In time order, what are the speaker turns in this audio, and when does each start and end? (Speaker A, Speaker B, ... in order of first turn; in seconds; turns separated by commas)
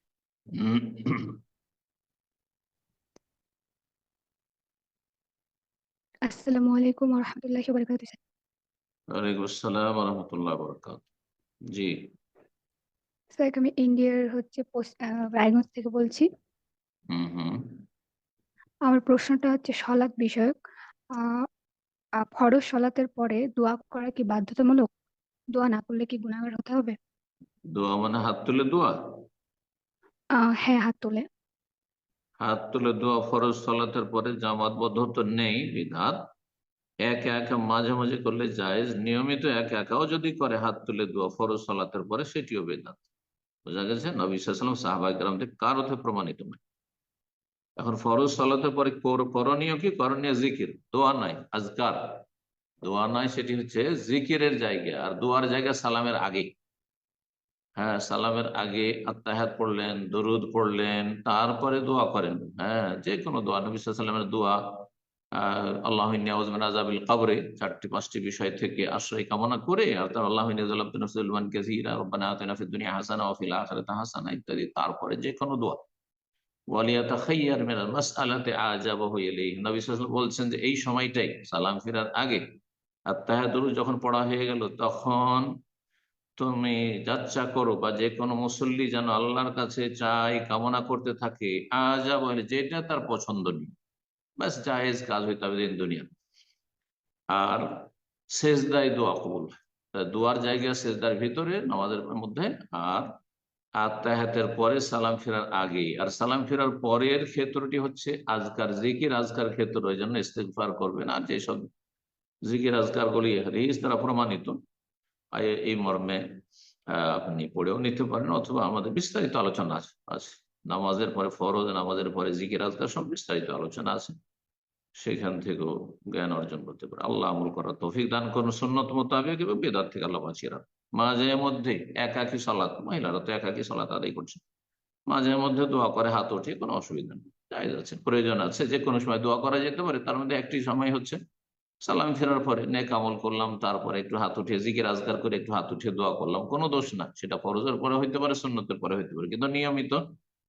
Speaker A: 0.5-1.4, Speaker B: 6.3-8.2, Speaker A: 9.1-11.0, Speaker B: 13.4-16.2, Speaker A: 17.1-17.6, Speaker B: 18.9-20.5, Speaker B: 22.2-24.9, Speaker B: 25.5-27.0, Speaker A: 27.7-28.9, Speaker B: 30.4-31.2, Speaker A: 32.4-36.2, Speaker A: 37.0-43.0, Speaker A: 43.6-46.6, Speaker A: 47.8-52.2, Speaker A: 52.8-56.5, Speaker A: 57.8-75.8, Speaker A: 76.7-82.4, Speaker A: 83.1-85.5, Speaker A: 86.4-93.7, Speaker A: 94.4-96.1, Speaker A: 97.3-103.1, Speaker A: 103.8-111.6, Speaker A: 112.5-114.6, Speaker A: 115.3-116.2, Speaker A: 116.9-124.1, Speaker A: 125.0-134.4, Speaker A: 135.1-141.2, Speaker A: 141.8-150.0